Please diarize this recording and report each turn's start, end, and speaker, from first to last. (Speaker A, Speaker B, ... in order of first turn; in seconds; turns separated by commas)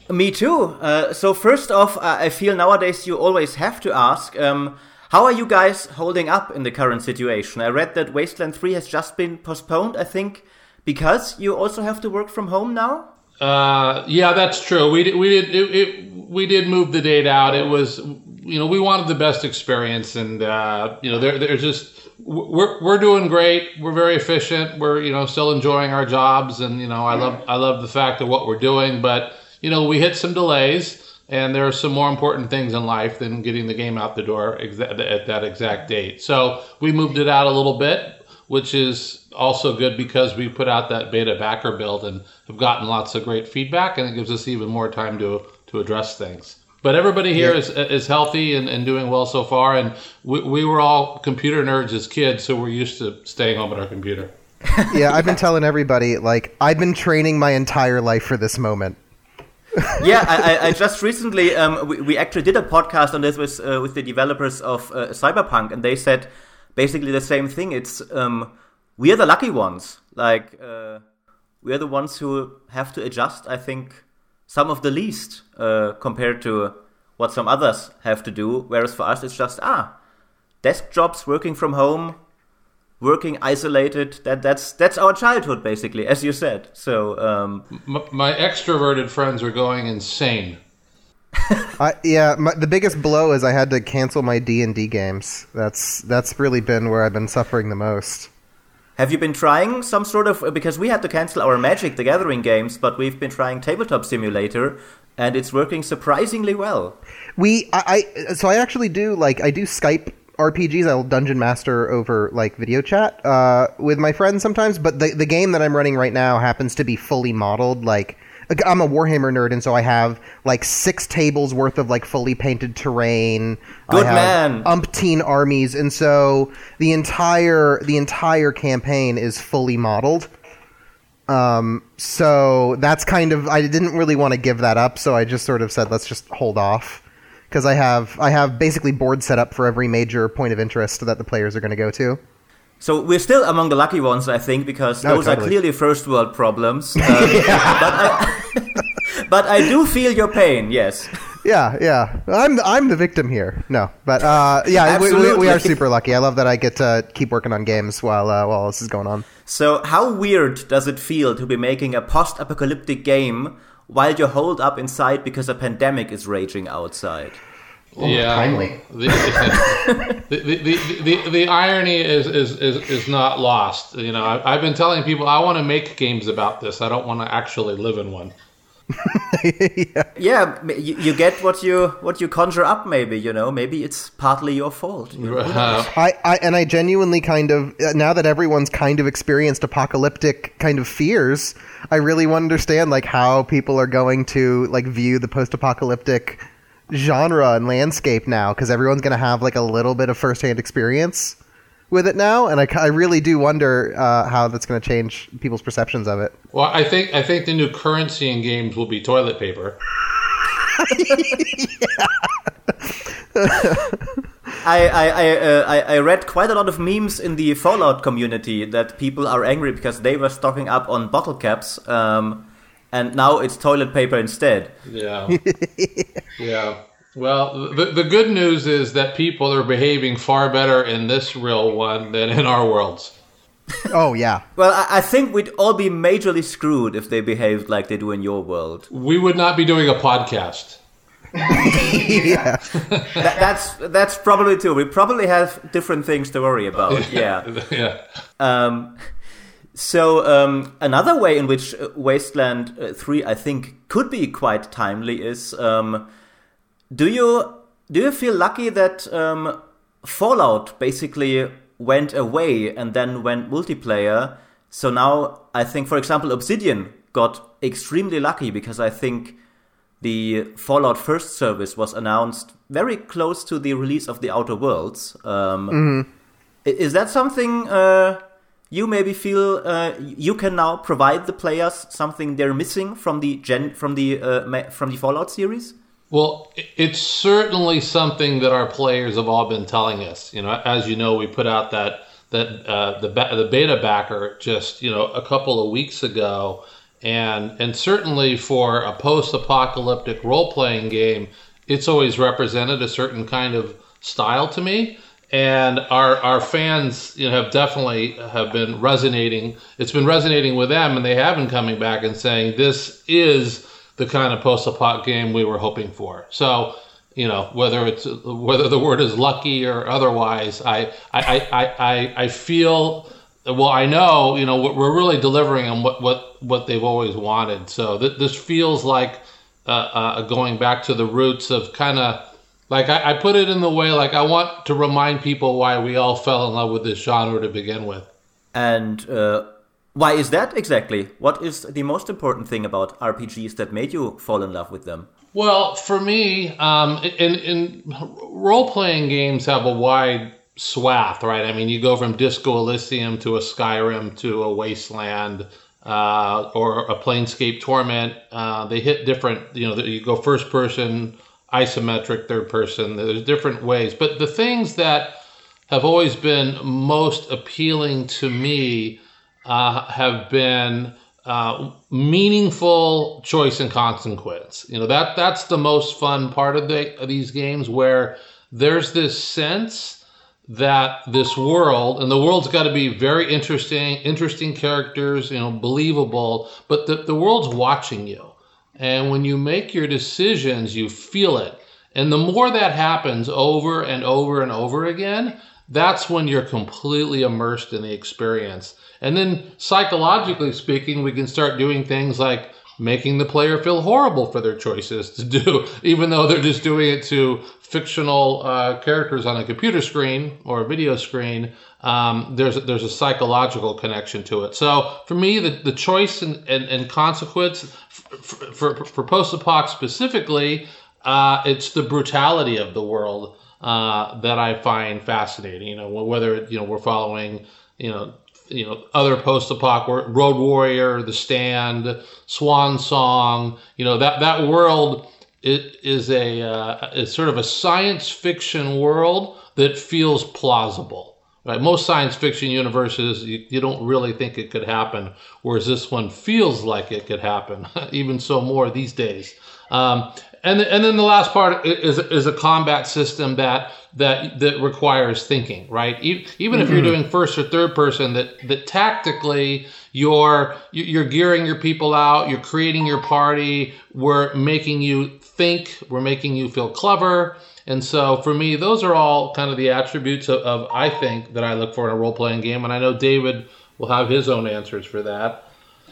Speaker A: 0.1-13.1, Speaker B: 13.4-54.3, Speaker A: 54.6-55.4, Speaker C: 54.9-59.0, Speaker C: 59.8-60.5, Speaker A: 60.0-71.0, Speaker A: 71.6-79.9, Speaker A: 80.6-82.2, Speaker A: 83.0-87.7, Speaker B: 87.7-90.6, Speaker A: 91.3-91.7, Speaker C: 91.8-98.3, Speaker A: 99.0-107.0, Speaker C: 107.4-130.3, Speaker A: 123.9-124.7, Speaker C: 131.3-142.2, Speaker A: 142.8-151.2, Speaker C: 145.0-145.5, Speaker C: 147.0-148.3, Speaker C: 151.4-159.3, Speaker A: 154.8-155.8, Speaker A: 159.5-167.4, Speaker B: 167.9-178.3, Speaker C: 168.0-169.8, Speaker A: 169.8-170.1, Speaker C: 179.0-180.1, Speaker A: 180.2-185.9, Speaker B: 185.2-185.9, Speaker C: 185.9-201.4, Speaker C: 201.9-206.3, Speaker B: 206.5-209.8, Speaker C: 210.7-214.2, Speaker A: 214.6-224.8, Speaker B: 224.9-225.4, Speaker C: 225.3-226.2, Speaker B: 226.4-233.2, Speaker C: 233.9-234.4, Speaker A: 234.6-238.9, Speaker B: 238.9-240.8, Speaker C: 241.5-243.3, Speaker B: 242.7-243.2, Speaker A: 243.2-247.5, Speaker B: 246.9-248.0, Speaker A: 248.4-249.0, Speaker A: 249.7-256.1, Speaker A: 256.9-269.4, Speaker A: 270.0-275.8, Speaker C: 275.7-276.1, Speaker A: 276.6-278.2, Speaker A: 278.7-285.8, Speaker B: 286.1-338.1, Speaker A: 338.5-345.1, Speaker B: 345.3-365.1, Speaker B: 365.7-475.4, Speaker C: 456.5-457.0